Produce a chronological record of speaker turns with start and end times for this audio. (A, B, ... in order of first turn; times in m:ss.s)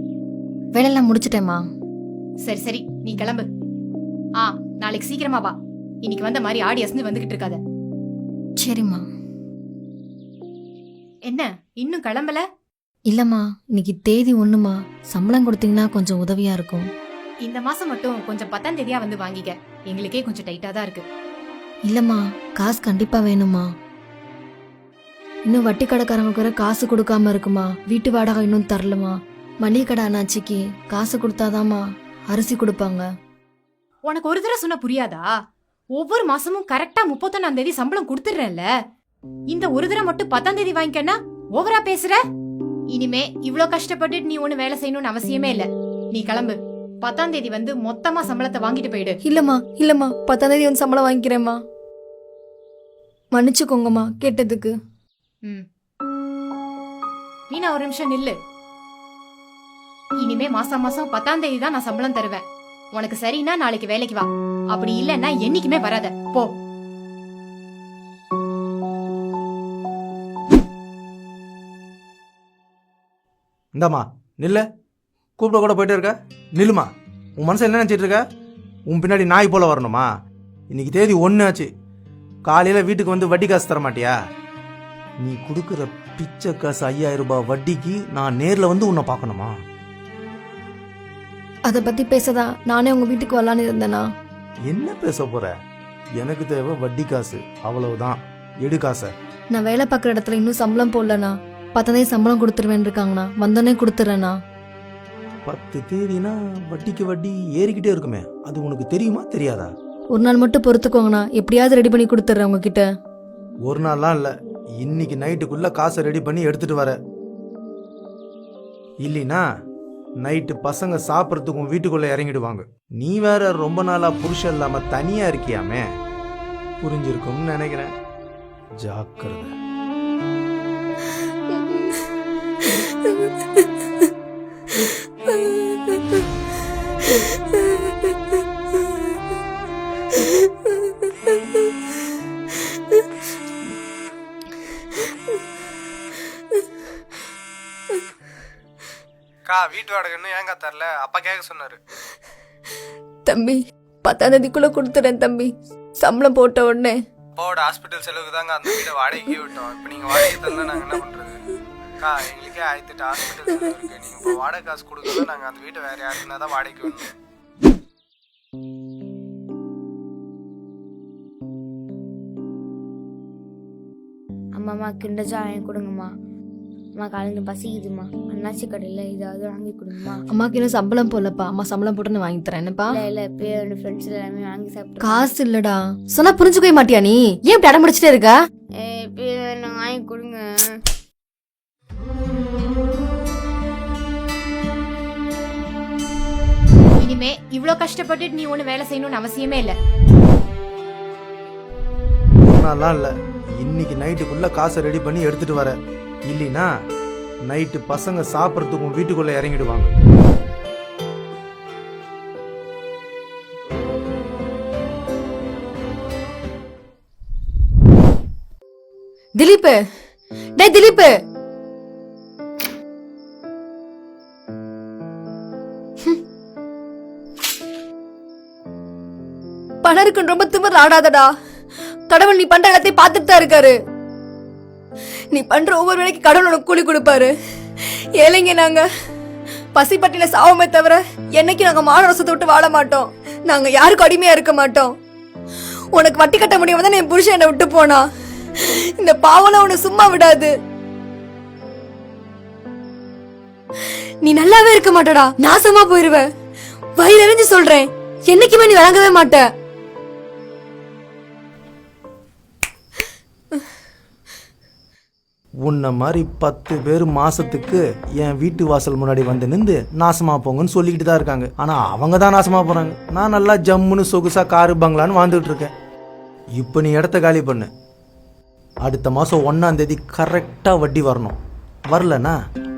0:00.8-0:01.7 A
0:02.4-0:03.5 B
0:04.4-0:07.6 B
0:08.6-0:09.0 A
0:11.3-0:12.4 B
0:13.1-0:16.9 A
0:17.4-0:21.0 B
0:21.9-0:23.7 A
0:25.5-0:33.0 A
0:34.0-0:35.3 B
0:36.0-0:38.7 B
0:39.5-0:42.2 B
0:42.9-0:49.2 B
0:49.3-0:51.6 A
0:53.3-0:54.7 A
0:57.5-0:58.4 B
1:00.2-1:02.4 B
1:03.0-1:06.5 B
1:13.8-1:14.6 C
1:15.4-1:16.9 C
1:17.4-1:18.2 C
1:18.9-1:20.0 C
1:20.7-1:21.7 C
1:22.5-1:24.1 C
1:25.2-1:29.5 C
1:31.7-1:34.0 A
1:34.7-1:35.5 C
1:36.2-1:39.1 C
1:39.5-1:44.4 A
1:45.5-1:49.7 C
1:50.1-1:52.8 A
1:53.7-1:57.0 C
1:59.0-1:59.4 C
2:00.2-2:05.8 C
2:06.8-2:07.9 C
2:08.8-2:09.5 C
2:11.6-2:12.0 A
2:12.8-2:13.4 A
2:15.3-2:16.0 A
2:17.1-2:17.9 A
2:20.1-2:20.5 A
2:29.5-2:31.8 D
2:33.2-2:37.0 A
2:37.4-2:41.4 D
2:42.0-2:47.1 D
2:54.6-2:56.1 E
2:57.0-3:00.2 E
3:00.3-3:03.0 A
3:02.9-3:05.3 E
3:05.0-3:08.4 A
3:08.8-3:10.8 E
3:17.0-3:19.8 B
3:22.4-3:25.8 C
3:26.3-3:26.7 C
3:27.5-3:29.9 C
3:39.4-3:39.8 A
3:40.6-3:41.1 A
3:49.8-3:51.3 A
3:52.1-3:53.8 A
3:55.3-3:58.8 A
3:59.8-4:04.9 A
4:05.9-4:10.5 A
4:14.2-4:16.3 A
4:17.0-4:19.5 A
4:25.7-4:35.7 C
4:36.6-4:37.7 C
4:38.9-4:41.4 C
4:41.9-4:42.4 C